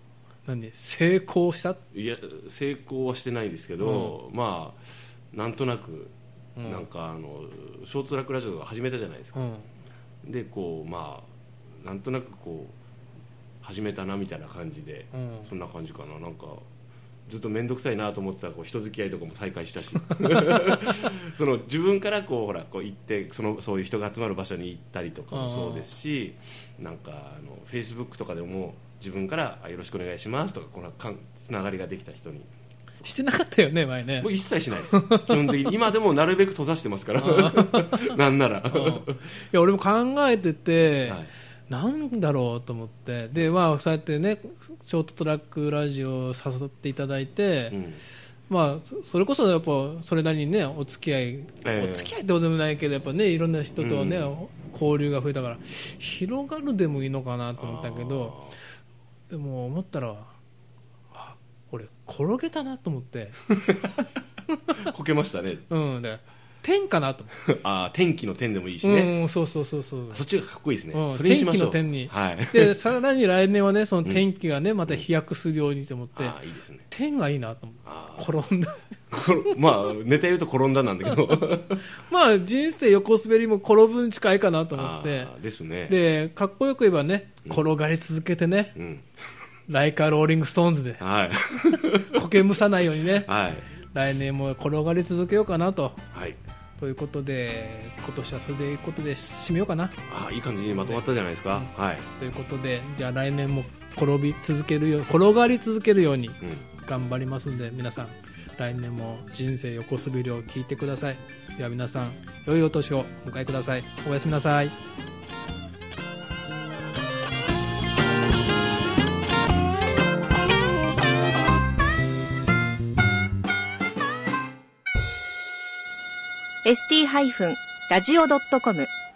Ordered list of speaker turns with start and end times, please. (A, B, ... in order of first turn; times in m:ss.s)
0:00.4-0:01.8 A
0:01.9-0:09.4 B
0:03.8-0:04.2 A
0:06.6-0:06.9 A
0:09.3-0:09.7 A
0:10.2-0:12.8 B
0:13.6-0:16.6 B
0:15.1-0:15.5 A
0:17.3-0:33.1 B
0:20.3-0:20.8 A
0:25.3-0:25.9 A
0:33.0-0:35.7 A
0:34.2-0:39.3 B
0:37.2-0:38.2 A
0:38.7-0:47.8 A
0:41.0-0:41.3 B
0:47.7-0:48.0 B
0:48.5-0:58.4 A
0:51.6-0:52.1 B
0:53.8-0:54.3 B
0:57.6-0:58.6 B
0:59.3-1:00.3 A
1:01.1-1:03.5 A
1:04.7-1:05.7 B
1:05.7-1:07.4 A
1:07.4-1:09.1 B
1:08.8-1:10.2 A
1:10.1-1:12.8 B
1:10.9-1:16.4 A
1:16.1-1:16.9 B
1:16.9-1:19.2 A
1:17.8-1:18.4 B
1:19.1-1:21.9 B
1:21.1-1:25.3 A
1:24.7-1:26.0 B
1:25.9-1:28.8 A
1:28.7-1:29.1 B
1:29.7-1:31.0 A
1:31.0-1:32.4 B
1:31.9-1:33.3 A
1:33.0-1:33.7 B
1:33.8-1:36.0 A
1:36.1-1:36.4 B
1:36.8-1:40.0 A
1:40.1-1:42.1 B
1:40.7-1:54.8 A
1:46.4-1:46.7 B
2:06.6-2:08.9 C